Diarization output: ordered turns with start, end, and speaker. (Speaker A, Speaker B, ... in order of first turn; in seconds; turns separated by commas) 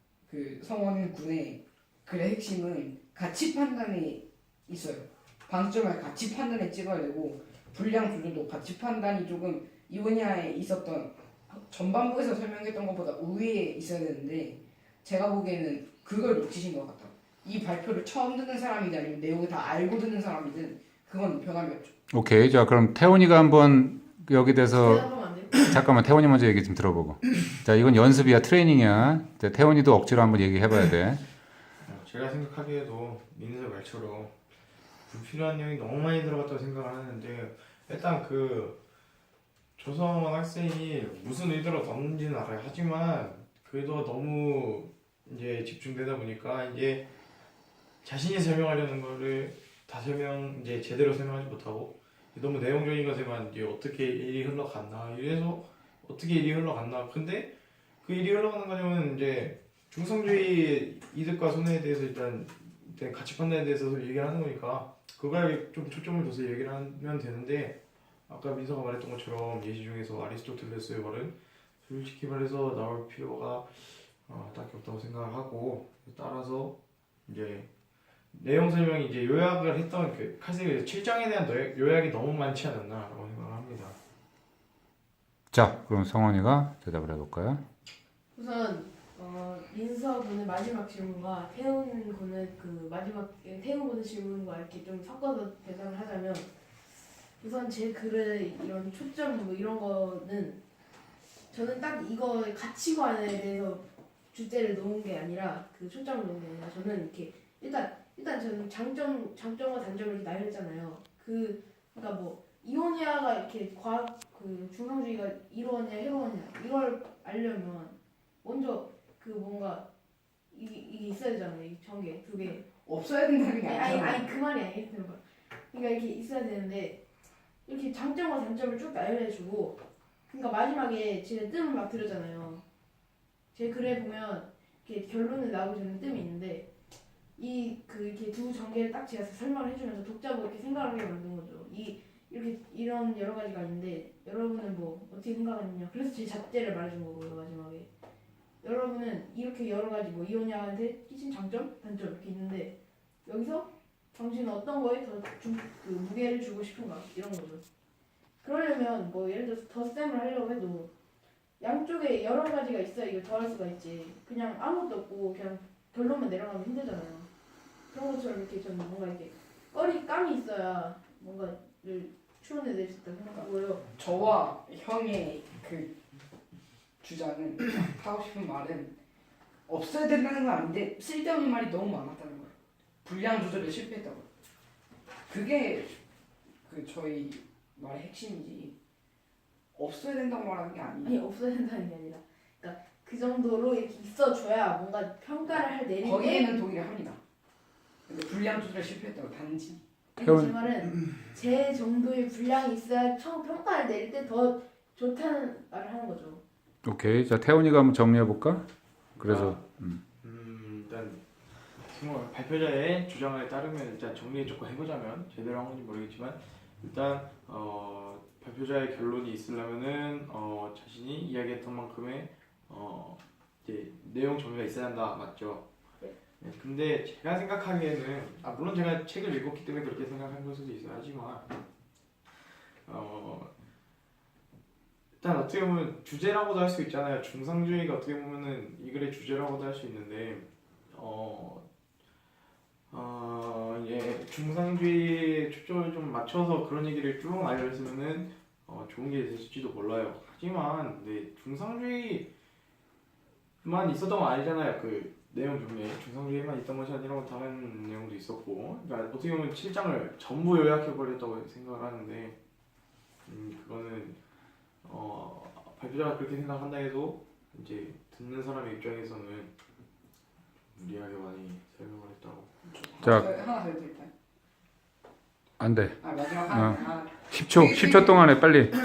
Speaker A: 0.3-21.9, Speaker B: 22.1-31.2, Speaker C: 24.7-25.7, Speaker D: 31.8-34.4, Speaker D: 35.1-38.8, Speaker D: 39.8-47.1, Speaker D: 48.0-76.8, Speaker D: 77.3-77.7, Speaker D: 78.3-84.0, Speaker B: 85.5-87.6, Speaker C: 88.4-96.5, Speaker C: 97.4-100.6, Speaker C: 101.5-119.9, Speaker C: 120.5-122.7, Speaker A: 122.8-124.3, Speaker C: 123.6-127.0, Speaker C: 127.7-132.6, Speaker C: 133.5-136.7, Speaker C: 137.4-147.9, Speaker C: 148.6-152.7, Speaker C: 153.2-157.6, Speaker C: 158.4-160.9, Speaker C: 161.6-167.3, Speaker C: 167.9-173.8, Speaker A: 173.9-175.9, Speaker A: 177.0-179.0, Speaker A: 179.7-184.3, Speaker A: 185.3-185.9, Speaker A: 186.7-188.8, Speaker A: 189.8-191.2, Speaker C: 191.0-196.5, Speaker A: 196.0-197.2, Speaker A: 198.1-199.8, Speaker C: 200.2-206.4, Speaker B: 200.2-200.6, Speaker B: 206.8-210.0, Speaker D: 209.2-209.6, Speaker D: 210.2-211.2, Speaker D: 211.8-225.7, Speaker D: 226.4-231.5, Speaker D: 232.8-233.5, Speaker D: 235.2-241.7, Speaker D: 242.9-252.3, Speaker D: 253.6-262.4, Speaker D: 263.3-264.2, Speaker D: 264.8-269.5, Speaker D: 270.8-272.5, Speaker A: 272.7-274.1, Speaker B: 275.6-276.0, Speaker A: 276.0-278.3, Speaker B: 276.5-276.8, Speaker B: 277.3-278.8